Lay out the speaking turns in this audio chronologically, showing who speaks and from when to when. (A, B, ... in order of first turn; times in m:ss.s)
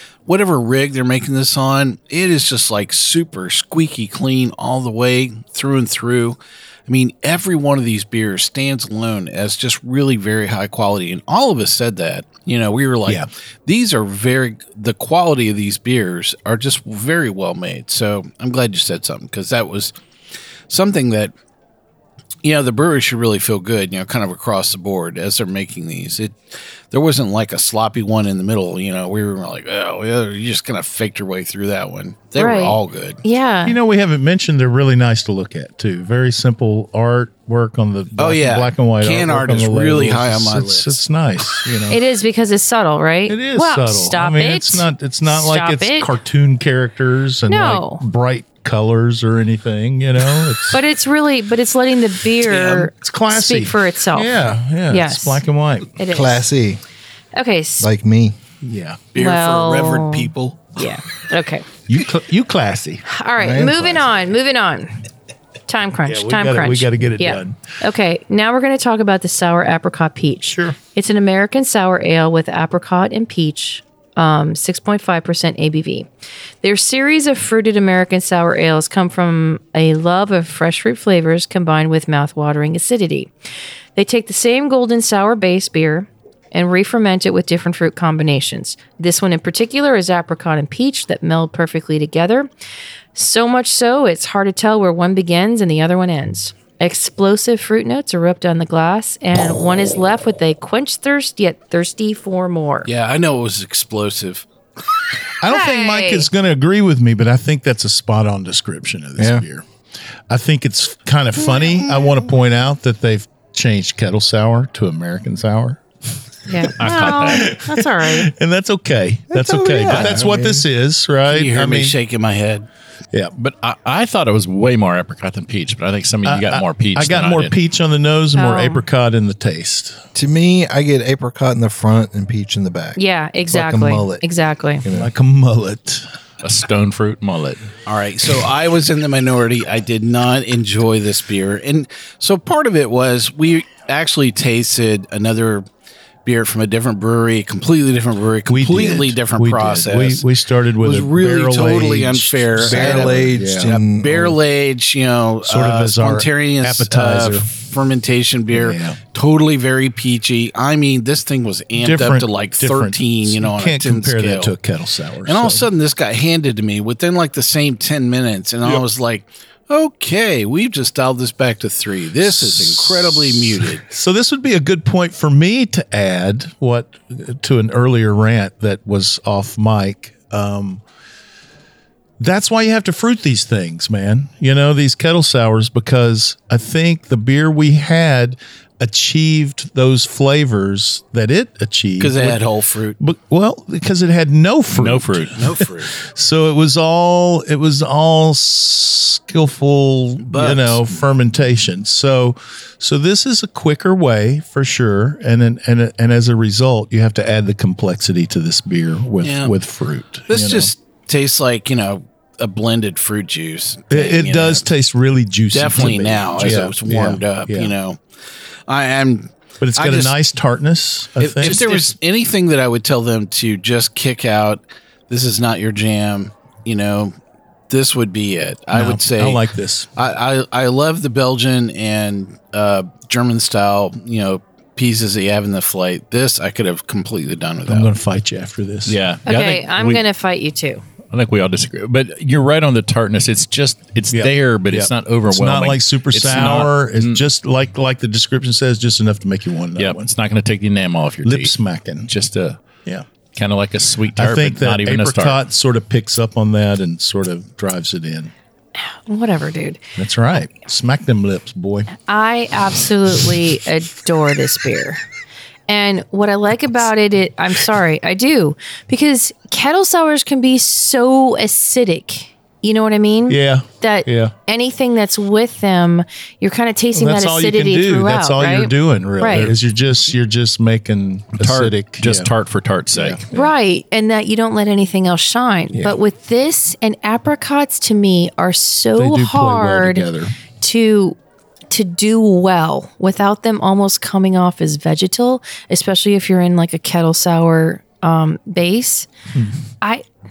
0:00.3-0:19.9 A
0:20.7-0:21.3 A
0:22.4-0:33.2 A
0:32.4-0:33.8 B
0:33.6-0:42.0 C
0:38.2-0:41.0 A
0:41.9-0:46.1 B
0:43.3-0:50.8 C
0:47.5-0:48.0 B
0:50.7-0:54.4 B
0:52.5-0:52.9 A
0:52.9-0:56.0 C
0:54.9-0:55.4 B
0:56.0-0:56.5 B
0:56.1-0:56.8 D
0:57.3-0:57.9 B
0:57.8-0:58.4 D
0:58.6-0:59.1 C
0:59.1-1:00.7 A
0:59.2-1:01.7 B
1:01.9-1:03.0 C
1:03.1-1:05.0 B
1:03.4-1:04.1 D
1:05.7-1:16.1 B
1:06.0-1:07.6 C
1:10.5-1:10.8 C
1:16.6-1:23.3 B
1:24.0-1:32.5 B
1:33.2-1:42.9 B
1:42.8-1:44.5 A
1:45.4-1:49.7 C
1:45.4-1:46.3 B
1:50.3-2:02.0 C
1:56.5-1:58.3 B
1:56.8-1:57.5 E
1:59.3-2:00.7 D
2:01.3-2:02.7 A
2:03.4-2:07.5 E
2:06.2-2:10.0 C
2:08.4-2:08.8 B
2:10.2-2:13.0 D
2:13.0-2:14.8 B
2:13.5-2:14.2 D
2:14.8-2:15.1 D
2:14.9-2:16.0 C
2:16.4-2:17.7 E
2:17.9-2:25.6 A
2:26.2-2:30.2 A
2:28.5-2:33.8 C
2:30.8-2:44.5 A
2:32.6-2:34.3 D
2:35.4-2:37.5 C
2:38.5-2:39.0 C
2:41.8-2:45.7 C
2:45.2-2:53.8 A
2:52.2-3:00.8 C
3:02.2-3:12.4 C
3:12.0-3:13.0 A
3:13.0-3:30.7 C
3:14.7-3:15.4 E
3:15.4-3:15.9 A
3:20.2-3:20.8 A
3:29.2-3:29.6 A
3:30.3-3:34.7 A
3:33.9-3:37.7 C
3:35.5-3:38.0 A
3:38.7-3:40.2 A
3:39.6-3:41.9 C
3:41.2-3:47.2 A
3:47.7-3:49.4 A
3:48.7-3:49.9 C
3:50.0-3:57.9 A
3:57.7-3:59.0 C
3:58.9-4:00.0 E
3:59.3-4:00.8 B
4:01.1-4:07.2 E
4:04.1-4:10.1 C
4:09.8-4:11.6 E
4:11.2-4:12.1 C
4:12.1-4:12.7 E
4:13.4-4:15.4 E
4:14.2-4:18.3 C
4:18.8-4:19.8 B
4:20.0-4:21.9 C
4:22.0-4:25.0 B
4:25.7-4:39.5 B
4:33.3-4:34.3 C
4:36.9-4:42.3 C
4:41.4-4:43.2 E
4:42.9-4:43.5 C
4:43.3-4:50.1 B
4:45.7-4:46.0 C
4:49.0-4:50.3 C
4:50.6-4:51.2 B
4:51.7-4:59.1 B